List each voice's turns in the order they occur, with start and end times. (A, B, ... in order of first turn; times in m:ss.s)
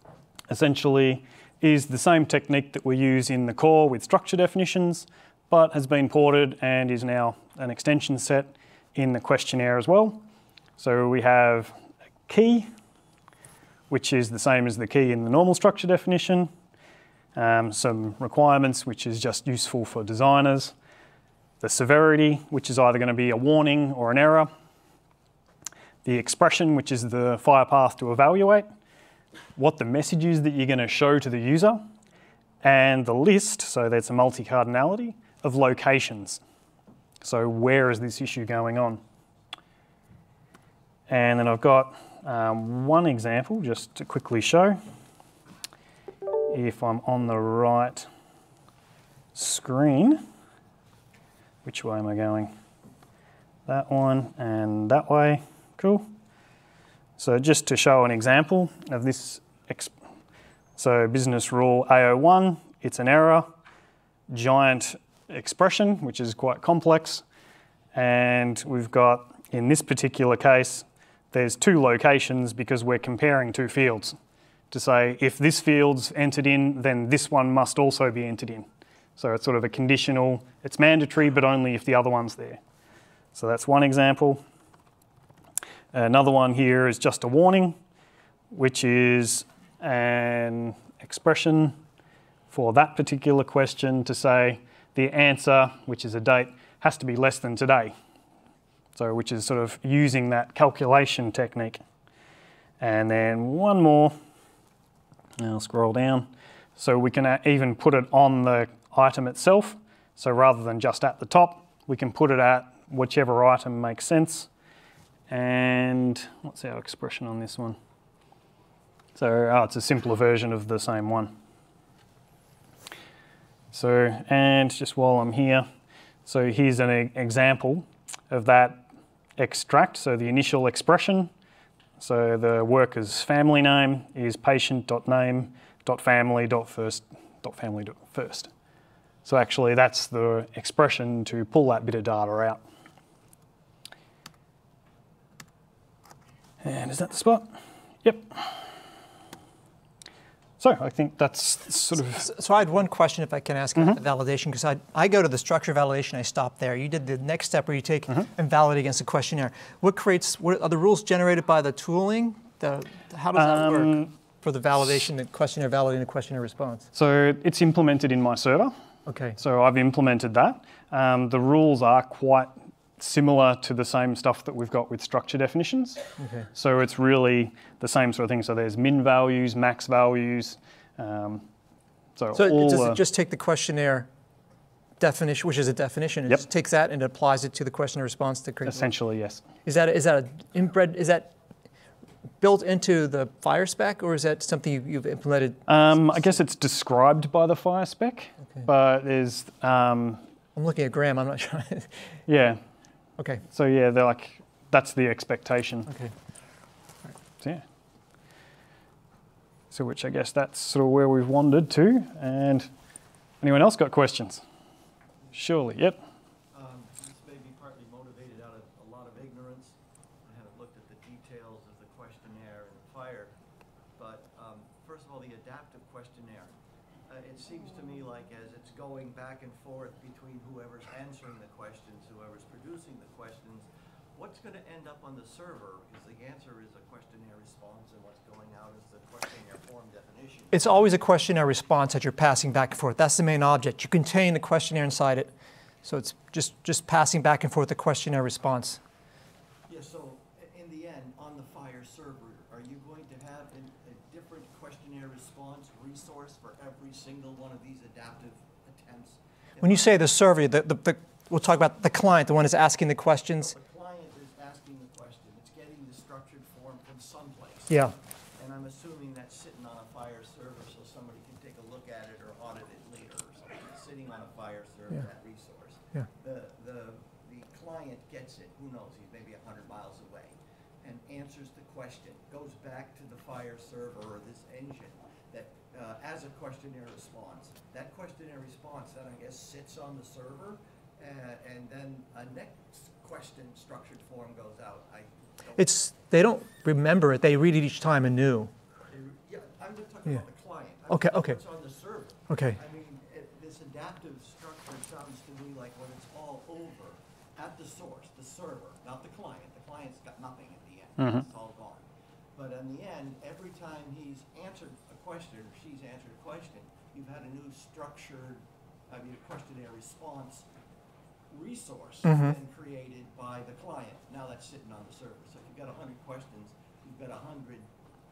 0:00.5-0:10.2 A
0:10.8-0:11.8 A
0:12.3-0:12.7 A
0:13.9-0:16.5 A
0:17.4-0:20.8 A
0:21.6-0:24.5 A
0:26.0-0:28.7 A
0:29.6-0:31.9 A
0:32.6-0:36.4 A
0:37.2-0:39.0 A
0:41.1-0:44.8 A
0:46.5-0:48.1 A
0:49.4-0:50.2 A
0:51.6-0:52.5 A
0:53.7-0:56.1 A
0:57.2-0:59.9 A
1:00.8-1:03.5 A
1:04.3-1:07.2 A
1:07.9-1:14.2 A
1:14.7-1:22.6 A
1:23.4-1:24.4 A
1:25.9-1:27.8 A
1:28.5-1:31.8 A
1:32.5-1:38.0 A
1:39.0-1:41.8 A
1:42.8-1:44.2 A
1:45.4-1:54.5 A
1:55.3-1:57.8 A
1:59.2-2:01.3 A
2:03.7-2:05.7 A
2:06.2-2:08.9 A
2:09.4-2:11.3 A
2:12.0-2:18.5 A
2:19.2-2:22.6 A
2:26.6-2:27.5 A
2:28.0-2:28.7 A
2:30.6-2:32.3 A
2:32.2-2:46.8 B
2:43.4-2:44.1 A
2:46.9-2:48.8 A
2:49.1-2:49.4 B
2:49.4-2:56.0 A
2:56.2-2:56.5 B
2:56.5-3:01.5 A
3:02.2-3:03.0 A
3:02.3-3:04.1 B
3:05.0-3:08.9 B
3:08.7-3:09.4 A
3:09.6-3:11.3 B
3:12.4-3:16.4 B
3:15.7-3:20.2 A
3:20.6-3:22.0 B
3:22.3-3:22.6 A
3:23.2-3:23.4 B
3:23.5-3:25.9 A
3:25.9-3:26.1 B
3:29.7-3:32.7 A
3:33.4-3:34.4 A
3:35.3-3:36.0 A
3:36.5-3:43.3 C
3:44.0-3:46.6 C
3:47.1-4:00.8 C
4:00.5-4:05.3 B
4:05.8-4:08.8 B
4:09.7-4:20.0 C
4:19.6-4:23.6 B
4:23.4-4:55.8 C
4:27.7-4:27.9 B
4:55.6-4:58.5 B
4:58.9-5:20.5 C
5:00.9-5:01.4 B
5:02.3-5:02.6 B
5:11.0-5:11.2 A
5:21.3-5:27.7 C
5:22.0-5:22.4 B